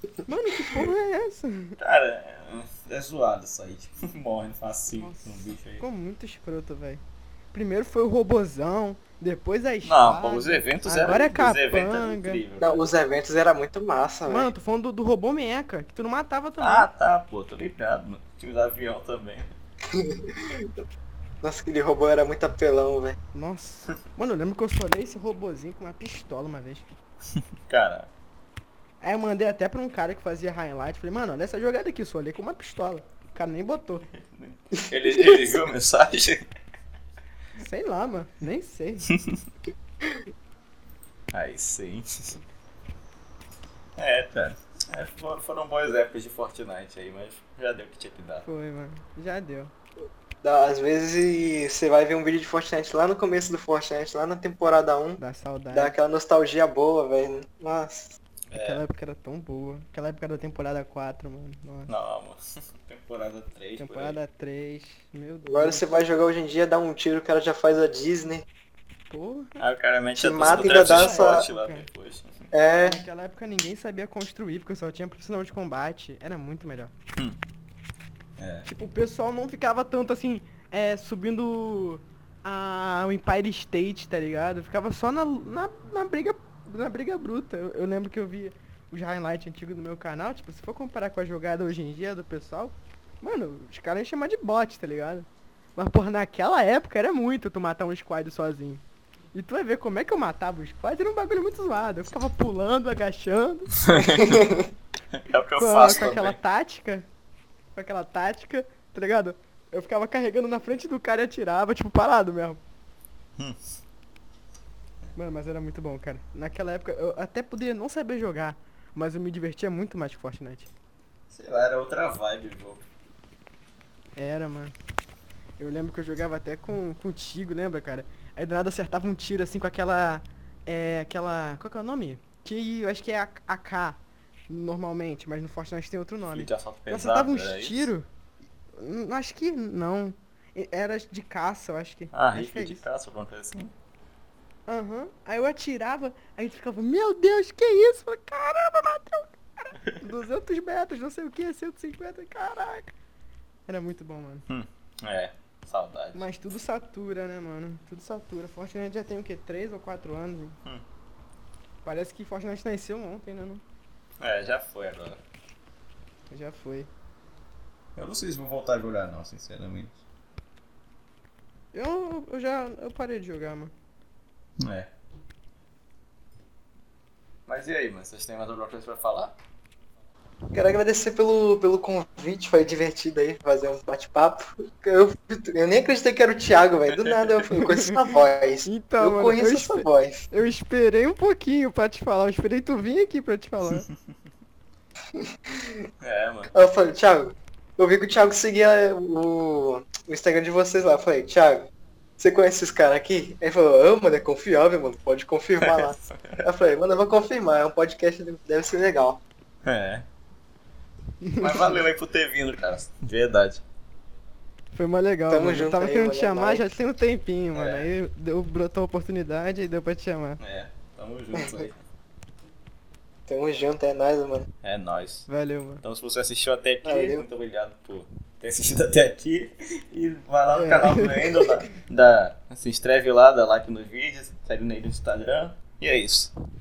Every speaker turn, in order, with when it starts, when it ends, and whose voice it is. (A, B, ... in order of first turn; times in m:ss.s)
0:00.2-0:01.8 A
0:01.8-0:05.8 B
0:04.9-0:07.0 A
0:07.5-0:12.4 A
0:09.8-0:12.8 B
0:12.6-0:14.5 C
0:14.3-0:16.9 A
0:16.6-0:19.5 B
0:19.9-0:20.8 C
0:21.4-0:23.2 C
0:23.3-0:26.9 A
0:27.7-0:28.1 B
0:29.0-0:34.0 A
0:34.1-0:36.4 B
0:37.6-0:39.1 A
0:41.3-0:42.4 B
0:44.0-0:48.4 B
0:48.4-0:49.7 A
0:50.4-0:55.2 C
0:55.2-0:55.9 A
0:55.7-0:58.1 C
0:58.5-0:58.8 B
0:58.6-1:01.9 A
1:01.9-1:04.2 B
1:03.8-1:06.0 A
1:05.4-1:08.4 C
1:09.1-1:09.6 A
1:09.6-1:12.5 B
1:10.2-1:11.4 C
1:10.4-1:11.8 A
1:12.5-1:13.0 C
1:12.8-1:16.9 A
1:18.4-1:18.7 B
1:18.6-1:38.8 A
1:39.3-1:44.4 A
1:43.7-1:44.4 B
1:44.3-1:44.6 C
1:45.1-1:46.4 B
1:45.6-1:47.1 A
1:47.8-1:52.6 A
1:55.2-2:00.7 A
2:01.3-2:02.9 B
2:04.2-2:04.7 A
2:05.6-2:14.0 A
2:14.5-2:18.1 A
2:16.3-2:17.9 B
2:18.8-2:22.8 A
2:22.1-2:23.7 B
2:24.7-2:32.9 A
2:33.7-2:34.4 A
2:34.5-2:36.2 B
2:36.1-2:40.6 A
2:41.8-2:43.6 A
2:44.2-2:45.2 B
2:46.3-2:46.9 A
2:48.0-2:50.0 B
2:51.7-2:53.7 A
2:54.6-2:54.9 B
2:57.5-2:59.4 B
3:00.5-3:10.2 C
3:06.9-3:07.5 B
3:07.6-3:07.9 A
3:08.6-3:13.8 A
3:15.1-3:15.9 C
3:16.0-3:16.5 B
3:16.5-3:29.2 C
3:25.6-3:26.4 B
3:29.6-3:30.0 B
3:31.2-3:31.7 A
3:31.4-3:33.6 B
3:34.7-3:40.4 A
3:35.3-3:36.7 C
3:37.5-3:37.9 B
3:40.4-3:41.8 B
3:43.3-3:44.5 C
3:44.6-3:45.3 B
3:45.3-3:45.8 A
3:45.8-3:56.3 B
3:46.8-3:47.2 C
3:50.5-3:51.4 A